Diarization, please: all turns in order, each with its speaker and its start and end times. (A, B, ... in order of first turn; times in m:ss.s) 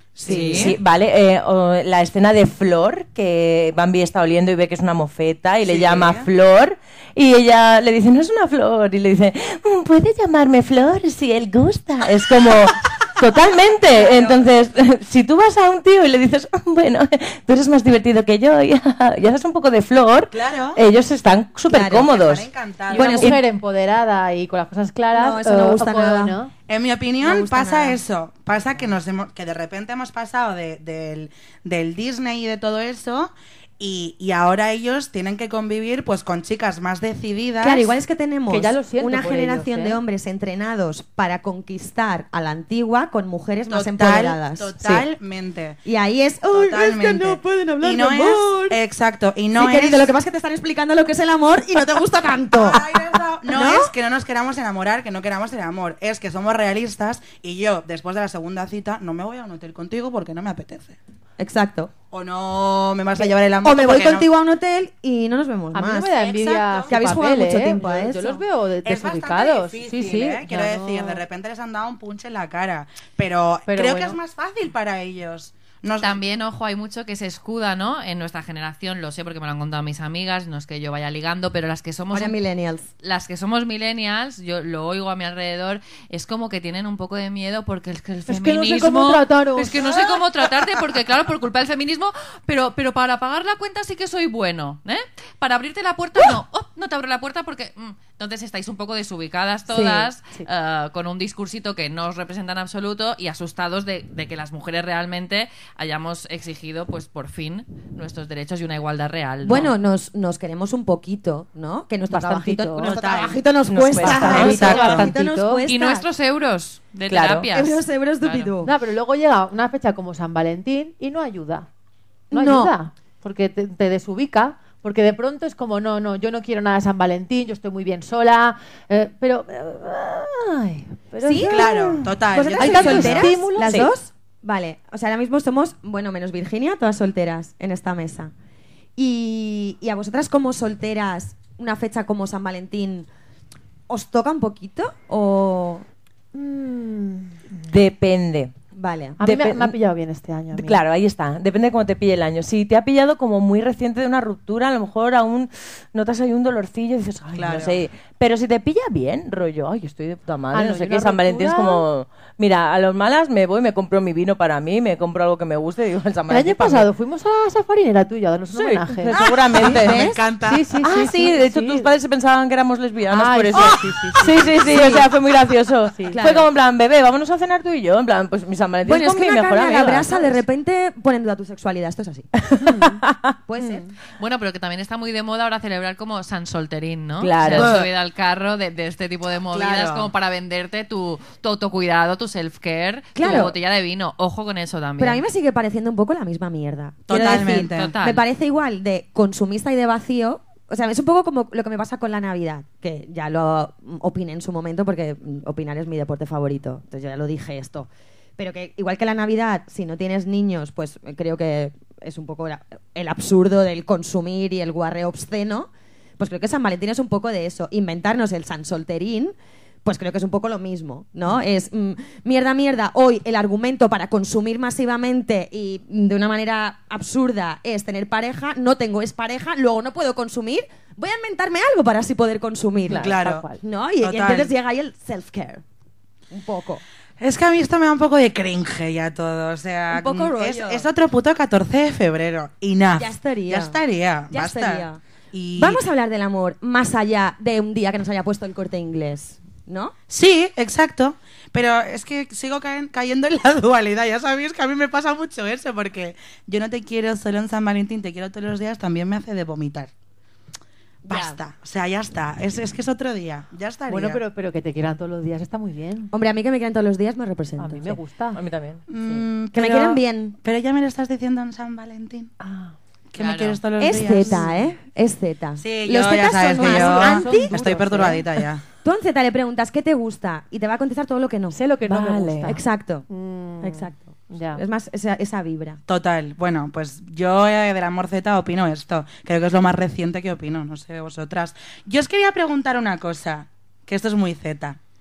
0:00.2-0:00.8 A
0:00.2-0:00.7 B
0:00.3-0:22.5 C
0:05.6-0:06.3 A
0:20.3-0:20.8 A
0:21.7-0:22.1 B
0:22.0-0:23.3 A
0:22.9-0:23.4 B
0:22.9-0:26.5 D
0:25.1-0:26.4 B
0:26.7-0:37.9 A
0:27.2-0:28.0 B
0:37.6-0:45.0 B
0:38.5-0:40.0 D
0:43.7-0:45.8 A
0:45.8-0:48.8 B
0:46.5-0:50.1 A
0:49.6-0:52.9 B
0:52.5-1:01.0 A
0:53.5-0:53.9 B
1:01.4-1:01.9 B
1:02.1-1:04.3 A
1:03.2-1:06.1 B
1:05.7-1:11.2 D
1:06.1-1:07.0 A
1:06.9-1:08.4 B
1:08.8-1:16.2 A
1:13.7-1:14.2 D
1:16.0-1:22.4 E
1:22.1-1:22.9 B
1:23.0-1:49.7 E
1:28.3-1:30.0 D
1:39.7-1:40.1 B
1:49.4-1:56.1 B
1:52.1-1:53.3 D
1:52.8-1:53.4 A
1:53.7-1:54.8 C
1:54.0-1:55.7 D
1:54.2-1:55.1 A
1:55.7-1:58.5 E
1:57.1-1:57.5 C
1:57.5-1:58.7 B
1:58.6-2:01.7 D
2:02.3-2:02.7 B
2:02.3-2:13.9 D
2:11.2-2:18.3 B
2:11.4-2:13.4 A
2:19.0-2:23.1 B
2:23.9-2:25.8 B
2:26.3-2:27.5 D
2:27.6-2:28.5 C
2:28.7-2:29.2 B
2:29.2-2:30.8 D
2:29.2-2:29.8 C
2:30.5-2:46.9 C
2:37.4-2:37.8 A
2:40.5-2:41.9 D
2:46.3-2:49.8 D
2:48.5-2:50.1 C
2:49.2-2:50.7 A
2:49.6-2:50.2 B
2:50.4-2:51.9 D
2:50.8-3:00.3 C
2:53.1-2:55.0 D
2:54.7-2:55.1 B
2:55.9-2:56.2 D
2:56.1-2:56.5 B
2:58.8-3:02.3 B
3:02.4-3:03.4 C
3:02.6-3:03.0 D
3:03.5-3:03.9 B
3:03.6-3:03.9 D
3:04.2-3:15.2 E
3:07.2-3:07.8 C
3:07.5-3:07.9 A
3:09.5-3:10.1 A
3:13.2-3:13.6 B
3:15.0-3:55.6 B
3:17.1-3:17.9 A
3:17.1-3:18.2 E
3:52.9-3:53.6 D
3:53.0-3:53.4 A
3:54.0-3:54.5 A
3:56.3-3:56.8 B
3:57.2-4:05.8 A
3:59.9-4:00.9 B
4:02.9-4:03.8 B
4:04.3-4:05.0 B
4:05.6-4:09.9 B
4:10.1-4:19.9 A
4:21.1-4:21.4 B
4:21.1-4:24.2 A
4:23.9-4:26.1 D
4:26.1-4:28.0 B
4:27.6-4:28.4 D
4:28.4-4:28.8 C
4:28.9-4:32.3 A
4:29.5-4:30.4 B
4:32.4-4:32.7 D
4:33.1-4:34.5 A
4:33.2-4:33.6 E
4:33.8-4:38.2 B
4:35.6-4:38.6 A
4:36.6-4:38.3 D
4:38.8-4:41.6 B
4:41.5-4:44.6 D
4:41.9-4:42.6 C
4:42.4-4:43.1 B
4:43.6-4:45.8 B
4:45.9-4:54.8 A